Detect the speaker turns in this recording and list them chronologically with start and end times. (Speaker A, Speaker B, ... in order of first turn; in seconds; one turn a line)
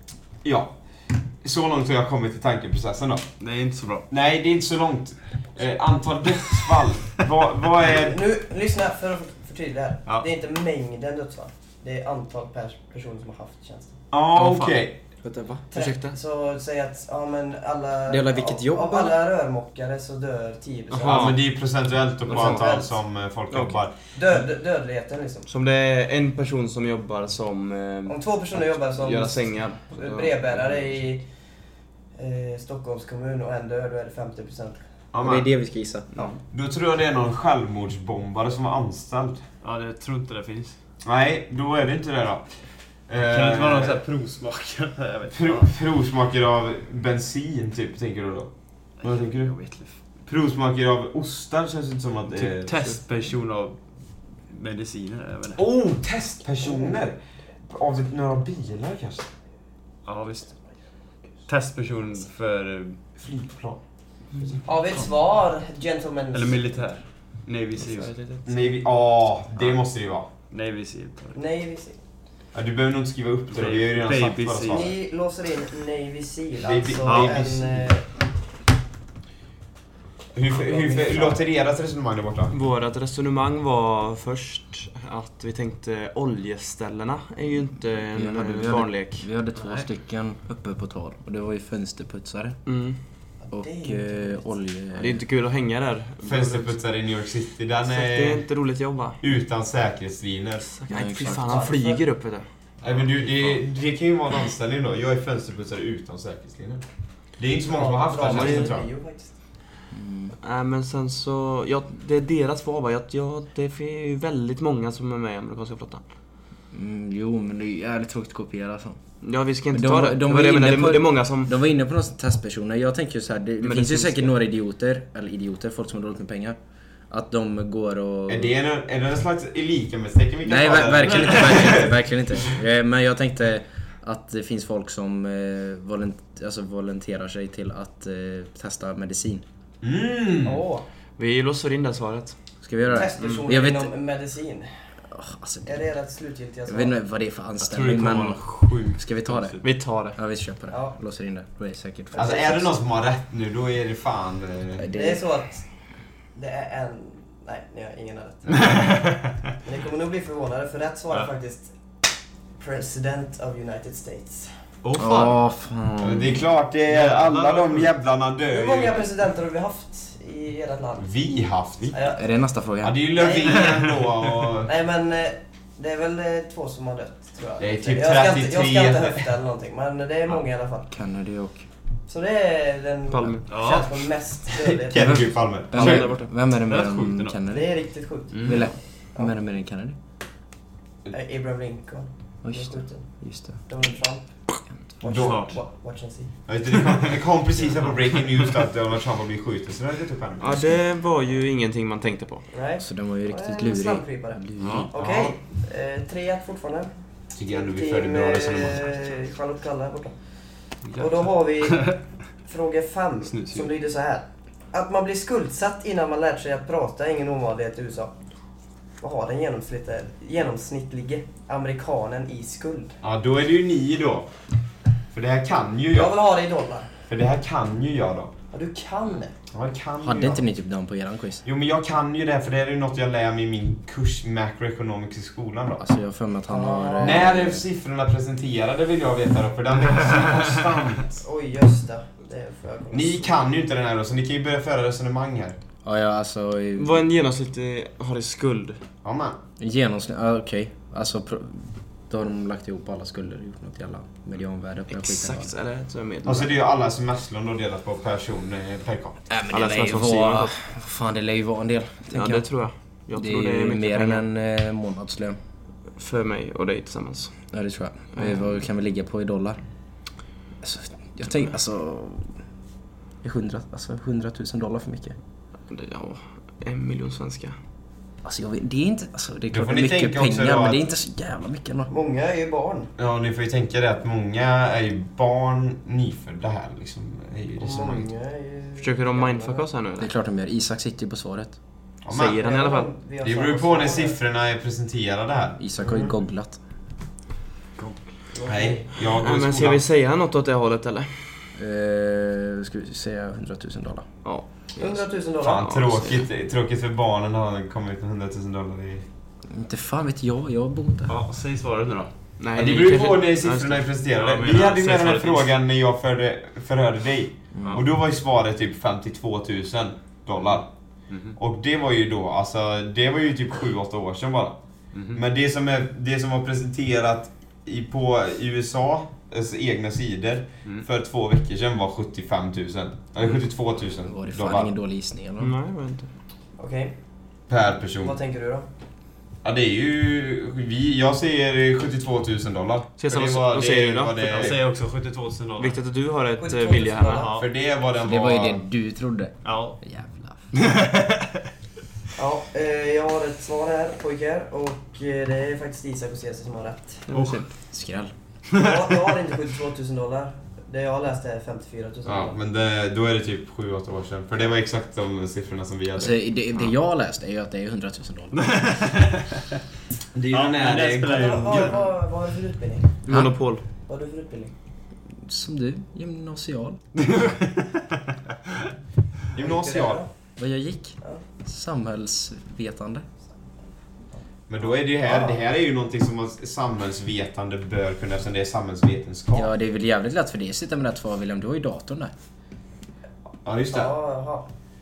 Speaker A: 0.4-0.7
Speaker A: 1.4-3.3
Speaker B: 3.4-4.0
Speaker A: 4.1-8.2
Speaker C: 7.9-14.0
Speaker A: 14.1-15.0
Speaker D: 15.2-15.6
Speaker E: 15.7-16.1
Speaker C: 15.7-21.4
Speaker D: 18.1-19.2
Speaker E: 20.9-21.4
Speaker A: 21.0-23.9
Speaker E: 22.2-22.8
Speaker C: 22.3-22.9
Speaker E: 23.5-23.8
Speaker C: 24.1-25.5
Speaker E: 25.5-30.6
Speaker C: 28.1-31.2
Speaker C: 32.1-34.8
Speaker A: 35.1-35.5
Speaker D: 35.2-36.1
Speaker A: 36.5-39.4
Speaker B: 39.6-40.8
Speaker A: 41.0-42.5
Speaker A: 43.1-44.0
Speaker B: 43.3-45.7
Speaker A: 45.3-48.5
Speaker A: 49.0-49.5
Speaker B: 49.0-50.0
Speaker A: 50.2-52.7
Speaker B: 52.3-53.8
Speaker B: 54.5-55.6
Speaker A: 55.5-59.3
Speaker C: 56.6-56.9
Speaker B: 60.0-60.5
Speaker B: 61.5-63.0
Speaker A: 63.2-63.8
Speaker A: 64.3-64.6
Speaker C: 64.6-66.8
Speaker B: 66.3-68.2
Speaker E: 67.8-68.5
Speaker A: 68.5-70.3
Speaker B: 70.5-71.4
Speaker C: 71.3-72.0
Speaker A: 72.5-74.9
Speaker B: 73.5-74.9
Speaker C: 74.7-78.0
Speaker A: 76.6-77.9
Speaker B: 77.0-77.4
Speaker A: 80.3-82.5
Speaker C: 80.5-81.4
Speaker E: 82.5-89.3
Speaker D: 88.1-92.6
Speaker B: 89.5-89.9
Speaker E: 92.7-93.0
Speaker C: 93.4-94.5
Speaker D: 93.5-95.2
Speaker E: 94.9-96.8
Speaker A: 96.2-98.4
Speaker E: 97.8-99.2
Speaker A: 99.2-100.7
Speaker E: 100.7-102.5
Speaker D: 100.9-101.7
Speaker C: 101.1-102.0
Speaker A: 102.8-106.8
Speaker B: 102.8-103.6
Speaker A: 107.4-108.9
Speaker C: 107.7-109.3
Speaker E: 108.2-108.7
Speaker D: 109.9-110.3
Speaker E: 110.4-116.0
Speaker D: 116.7-119.0
Speaker E: 119.2-121.5
Speaker D: 119.7-126.6
Speaker E: 123.6-124.3
Speaker D: 127.1-128.5
Speaker A: 128.3-132.4
Speaker D: 130.4-139.4
Speaker B: 131.1-131.8
Speaker A: 139.8-140.6
Speaker C: 140.4-140.8
Speaker E: 141.2-142.3
Speaker D: 142.6-143.9
Speaker C: 142.9-144.7
Speaker D: 145.1-145.7
Speaker C: 145.6-146.9
Speaker D: 146.7-149.6
Speaker B: 147.6-149.6
Speaker E: 149.6-150.2
Speaker D: 150.1-152.6
Speaker C: 150.7-151.0
Speaker C: 152.1-152.6
Speaker A: 152.2-154.9
Speaker D: 154.8-155.2
Speaker C: 154.9-155.7
Speaker C: 156.3-159.0
Speaker B: 158.5-159.4
Speaker C: 159.6-161.7
Speaker C: 162.6-164.5
Speaker B: 164.8-165.4
Speaker D: 164.9-166.4
Speaker A: 166.0-169.0
Speaker B: 166.9-167.9
Speaker C: 168.5-171.1
Speaker A: 171.0-171.9
Speaker C: 171.9-172.2
Speaker D: 172.1-173.0
Speaker A: 172.8-174.7
Speaker C: 173.1-173.7
Speaker B: 173.6-174.0
Speaker C: 174.7-180.9
Speaker A: 177.6-179.3
Speaker D: 180.9-181.7
Speaker C: 182.1-185.2
Speaker E: 183.1-183.4
Speaker B: 183.5-183.9
Speaker A: 184.5-186.1
Speaker D: 185.0-187.7
Speaker E: 185.7-186.3
Speaker B: 186.6-187.4
Speaker C: 187.5-189.3
Speaker B: 188.3-188.6
Speaker D: 188.4-190.0
Speaker C: 191.1-194.2
Speaker D: 192.4-193.6
Speaker C: 195.0-196.3
Speaker A: 195.0-195.5
Speaker B: 195.1-195.6
Speaker A: 196.5-200.7
Speaker E: 200.4-202.4
Speaker C: 202.5-206.9
Speaker D: 202.8-204.8
Speaker B: 204.6-205.3
Speaker A: 207.3-209.1
Speaker C: 207.5-210.2
Speaker B: 210.8-212.0
Speaker C: 210.9-218.1
Speaker B: 213.2-213.7
Speaker C: 219.0-222.9
Speaker A: 223.0-224.3
Speaker A: 225.1-226.1
Speaker C: 225.9-226.9
Speaker A: 227.1-228.3
Speaker C: 228.5-229.3
Speaker A: 229.5-230.4
Speaker D: 230.0-231.4
Speaker A: 231.4-235.8
Speaker D: 235.8-237.6
Speaker C: 236.5-237.5
Speaker A: 237.0-241.2
Speaker C: 241.1-243.3
Speaker A: 242.9-245.6
Speaker D: 245.8-247.0
Speaker E: 246.8-248.8
Speaker A: 249.0-249.4
Speaker D: 249.6-255.5
Speaker E: 254.9-256.5
Speaker A: 256.2-259.2
Speaker D: 259.3-262.5
Speaker E: 259.5-260.5
Speaker E: 262.1-264.3
Speaker D: 263.1-265.4
Speaker E: 266.0-267.3
Speaker D: 267.5-269.6
Speaker D: 270.6-272.3
Speaker D: 273.2-275.2
Speaker E: 275.7-277.6
Speaker D: 278.2-281.9
Speaker A: 279.5-280.8
Speaker C: 281.9-282.9
Speaker A: 283.0-288.1
Speaker C: 287.6-289.6
Speaker E: 288.8-290.1
Speaker D: 290.0-291.6
Speaker A: 292.0-292.4
Speaker E: 292.1-292.9
Speaker C: 292.4-294.2
Speaker A: 293.2-295.6
Speaker D: 295.6-296.6
Speaker C: 295.8-296.1
Speaker C: 298.3-298.9
Speaker A: 298.4-299.8
Speaker E: 299.1-301.2
Speaker D: 301.6-304.1
Speaker E: 304.2-305.0
Speaker C: 304.8-305.7
Speaker A: 305.4-309.0
Speaker E: 305.6-306.2
Speaker D: 309.5-311.2
Speaker B: 311.1-312.1
Speaker E: 312.4-313.9
Speaker A: 312.5-320.7
Speaker B: 314.2-315.5
Speaker D: 317.6-317.8
Speaker B: 321.1-321.4
Speaker A: 321.4-324.6
Speaker B: 324.9-325.2
Speaker A: 325.1-334.7
Speaker D: 334.0-335.5
Speaker E: 335.4-336.1
Speaker C: 336.6-336.9
Speaker A: 337.5-338.2
Speaker C: 338.0-338.7
Speaker A: 339.4-344.6
Speaker E: 343.0-344.5
Speaker B: 344.2-345.8
Speaker E: 345.6-347.3
Speaker C: 346.4-347.3
Speaker B: 347.0-347.5
Speaker A: 347.4-348.6
Speaker D: 348.0-350.4
Speaker B: 349.4-349.8
Speaker B: 350.5-351.5
Speaker C: 352.1-357.0
Speaker E: 357.1-357.4
Speaker B: 357.1-357.4
Speaker D: 357.7-358.1
Speaker B: 358.5-359.0
Speaker C: 358.5-362.4
Speaker A: 362.0-366.2
Speaker D: 366.0-368.6
Speaker B: 368.3-369.6
Speaker A: 370.1-371.7
Speaker B: 370.3-371.9
Speaker C: 371.1-372.9
Speaker E: 373.1-373.6
Speaker D: 373.1-373.3
Speaker C: 373.9-374.5
Speaker D: 375.2-376.8
Speaker B: 376.9-378.7
Speaker A: 379.3-380.0
Speaker C: 379.4-380.1
Speaker D: 380.4-383.1
Speaker A: 384.5-389.5
Speaker C: 385.0-385.4
Speaker D: 389.3-392.1
Speaker A: 393.4-393.9
Speaker C: 393.7-394.5